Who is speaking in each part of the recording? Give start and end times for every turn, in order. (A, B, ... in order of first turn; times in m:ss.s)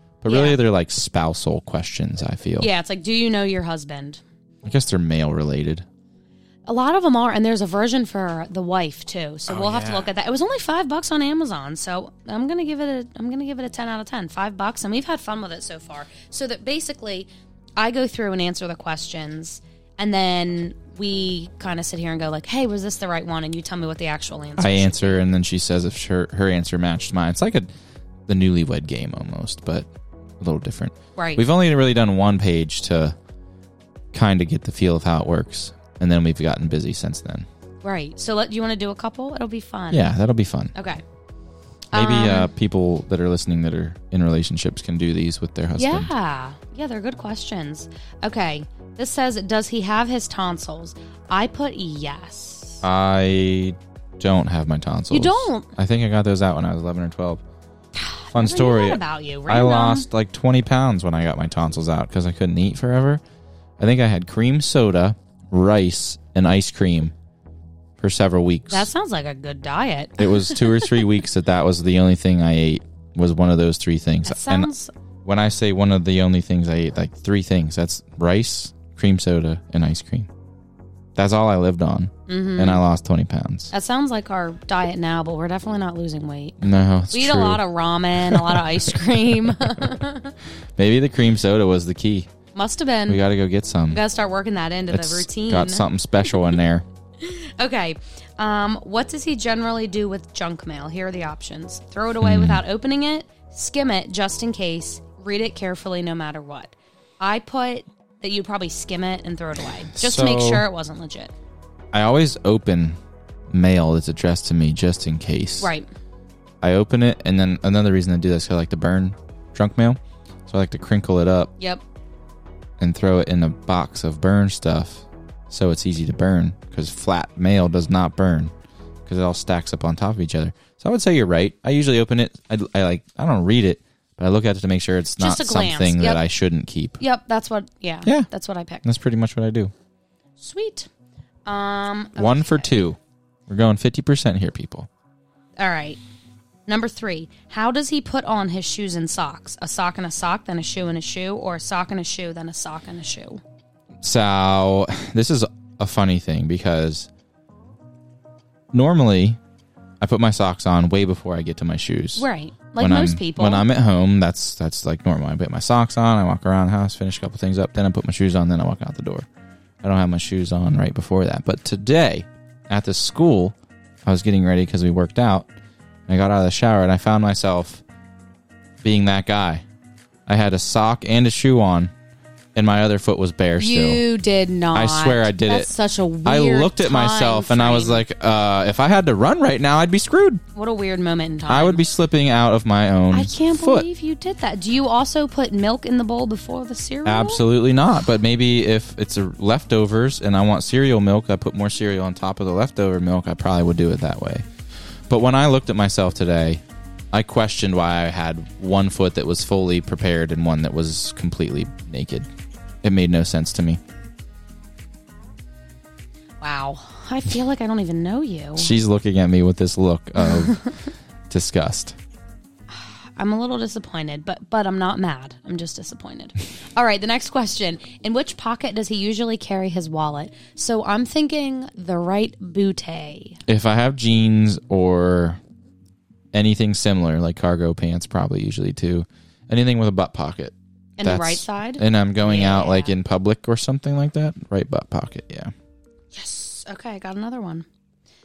0:00.2-0:02.7 A
0:00.3-0:00.6 B
0:02.6-0:04.2 B
0:04.6-0:05.8 A
0:06.6-0:25.2 B
0:09.5-0:10.1 A
0:24.6-0:27.7 A
0:28.3-0:29.9 A
0:30.4-0:33.1 A
0:31.2-0:31.4 B
0:34.1-0:37.5 A
0:37.8-0:40.1 B
0:39.9-0:40.7 A
0:40.7-0:41.0 B
0:41.9-0:42.5 B
0:41.9-0:46.1 A
0:45.8-0:52.8 B
0:52.8-0:57.4 A
0:55.1-0:55.7 B
0:58.0-1:00.1 B
0:58.3-1:03.2 A
1:03.8-1:07.1 A
1:08.0-1:08.9 A
1:08.7-1:11.0 B
1:10.2-1:14.7 A
1:14.2-1:14.9 B
1:15.2-1:20.3 A
1:21.2-1:23.7 A
1:22.3-1:22.8 B
1:23.7-1:30.3 B
1:26.6-1:27.6 A
1:28.1-1:29.9 A
1:30.8-1:32.3 A
1:32.5-1:33.2 B
1:33.1-1:34.0 A
1:33.9-1:35.8 B
1:34.9-1:36.8 A
1:37.2-1:51.3 B
1:42.2-1:42.6 A
1:49.9-1:50.6 A
1:51.9-1:53.0 A
1:53.5-1:55.7 A
1:55.6-1:55.9 B
1:56.6-2:01.5 A
2:02.8-2:08.5 A
2:09.0-2:17.0 A
2:15.2-2:16.2 B
2:17.0-2:18.8 B
2:18.8-2:19.7 A
2:20.4-2:20.9 B
2:21.4-2:22.8 B
2:22.2-2:24.9 A
2:25.6-2:26.0 B
2:26.7-2:33.4 B
2:34.0-2:37.1 A
2:38.7-2:39.4 A
2:40.0-2:42.3 A
2:42.2-2:43.6 B
2:42.8-2:49.3 A
2:49.8-2:55.5 A
2:56.1-2:57.8 A
2:58.8-2:59.6 A
3:00.3-3:01.9 A
3:02.5-3:04.0 A
3:03.6-3:08.0 B
3:04.7-3:05.7 A
3:06.2-3:10.4 A
3:10.5-3:11.8 B
3:11.5-3:13.9 A
3:13.1-3:17.4 B
3:17.0-3:24.4 A
3:25.1-3:32.3 A
3:32.8-3:33.8 A
3:36.4-3:38.7 B
3:38.6-3:40.6 A
3:40.2-3:40.7 B
3:41.3-3:42.0 A
3:42.7-3:53.4 B
3:53.5-3:55.4 A
3:56.3-4:05.5 A
4:01.0-4:02.9 B
4:06.1-4:07.6 B